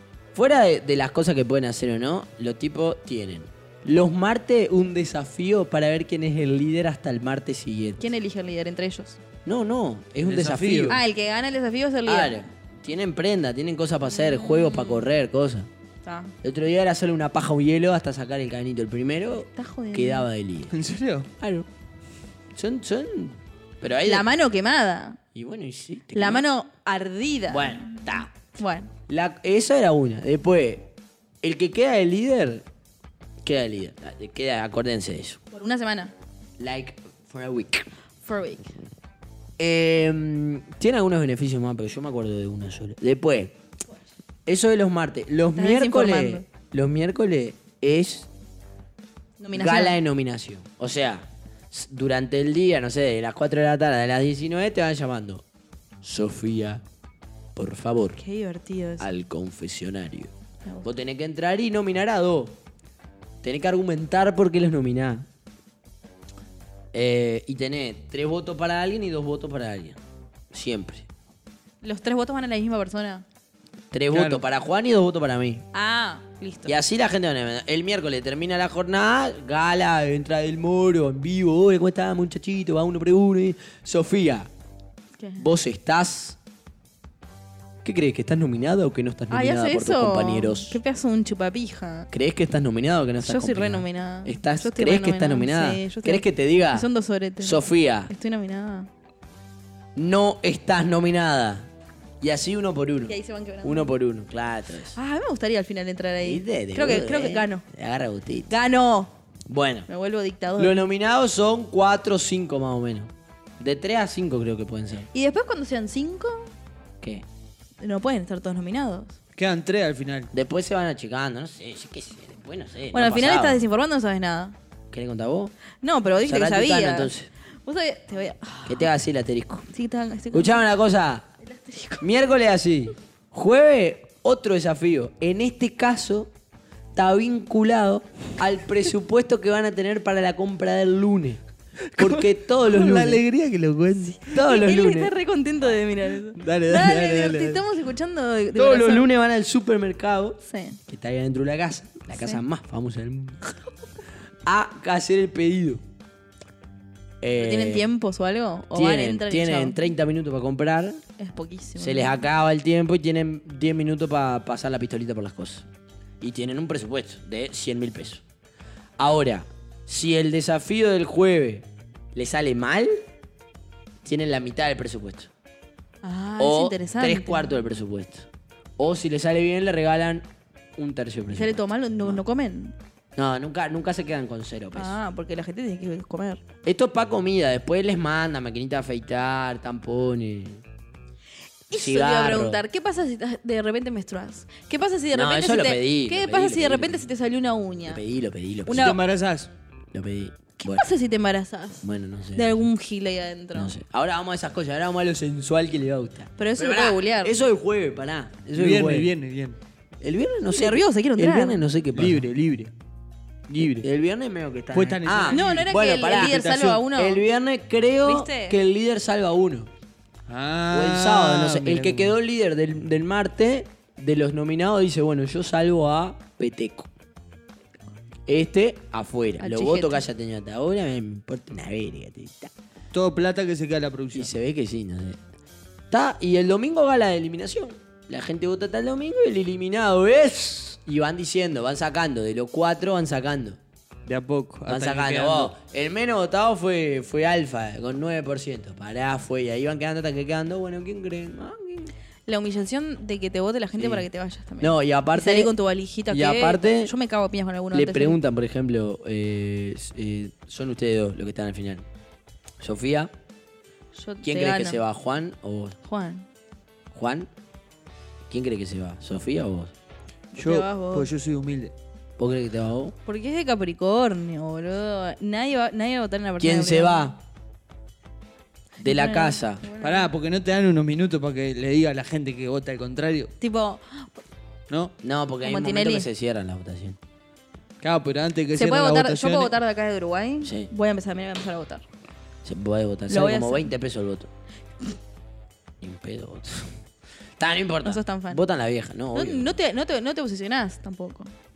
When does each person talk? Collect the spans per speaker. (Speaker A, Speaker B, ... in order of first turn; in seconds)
Speaker A: 0.3-8.0, 9.4-11.0, 12.1-15.7, 16.4-20.7, 21.4-21.7, 22.6-24.3, 25.4-26.4, 27.5-28.3, 29.1-30.9, 31.4-32.6, 33.4-35.4, 36.6-37.9, 39.6-43.5, 44.5-48.3, 49.5-55.4, 56.0-56.8, 57.6-58.2, 59.0-60.3, 60.8-62.6, 63.4-65.3, 66.9-70.0, 70.5-71.1, 73.9-75.7, 76.7-84.5, 85.4-86.4, 87.8-90.8, 92.1-96.9, 97.4-98.1, 99.9-101.7, 102.2-105.0, 106.2-108.5, 109.5-109.9, 110.6-115.1, 120.3-123.6, 124.9-125.5, 126.2-127.3, 128.7-129.7, 130.3-131.3, 132.0-136.3, 136.9-141.4, 141.9-143.2, 144.3-145.1, 148.6-153.4, 154.4-155.8, 157.2-157.9, 158.7-161.0, 161.8-165.7, 166.2-168.2, 169.0-172.9, 174.0-175.3, 176.4-178.3, 178.8-180.2, 180.8-182.2, 183.2-185.0, 186.6-190.6, 191.7-192.6, 195.1-197.1, 197.9-199.0, 199.9-200.9, 201.8-202.6, 203.6-209.1, 210.0-212.3, 213.8-219.7, 220.7-226.9, 228.3-232.5, 234.1-235.2, 235.9-243.6, 244.7-251.9, 253.8-254.1, 254.6-255.5, 256.1-256.9, 257.7-261.9, 262.6-263.1, 264.2-265.8, 266.9-267.3, 268.3-269.7, 272.2-272.9, 276.4-277.1, 278.8-279.6, 285.0-287.0, 290.4-290.7, 292.4-294.3, 295.8-296.8, 297.4-299.6
Speaker B: 8.0-9.2, 10.9-12.4, 14.1-15.1, 16.0-16.3, 19.4-20.3, 24.0-25.2, 26.1-28.9, 35.5-36.1, 38.2-38.7, 45.5-46.4, 49.4-50.0, 58.2-59.1, 71.8-73.2, 75.7-76.8, 85.2-85.5, 89.3-92.1, 93.2-98.9, 103.1-103.9, 104.9-107.6, 108.5-109.1, 109.9-110.8, 115.1-116.5, 117.8-119.2, 122.9-124.6, 125.8-127.1, 127.6-128.9, 129.7-130.6, 131.4-132.1, 144.2-149.1, 150.4-150.8, 152.1-152.4, 157.4-159.8, 161.2-162.2, 176.0-177.6, 181.3-182.7, 184.7-186.4, 191.7-198.0, 198.7-199.0, 200.6-203.7, 206.4-207.3, 210.5-211.6, 215.3-217.2, 218.1-218.6, 229.4-230.0, 252.2-258.2, 263.9-264.8, 265.8-266.3, 270.4-271.1, 273.1-277.1, 278.8-280.1, 283.4-284.2, 285.4-286.1, 288.5-291.9, 293.1-293.7, 297.8-298.4, 299.1-301.3
Speaker C: 10.2-11.0, 20.7-21.3, 74.1-74.4, 119.4-120.3, 141.9-144.2, 146.3-147.6, 198.7-199.5, 208.6-209.6, 211.9-212.7, 213.5-213.9, 214.7-216.8, 220.3-222.1, 232.9-234.3, 244.1-245.5, 270.4-271.7, 279.8-283.3, 287.8-289.5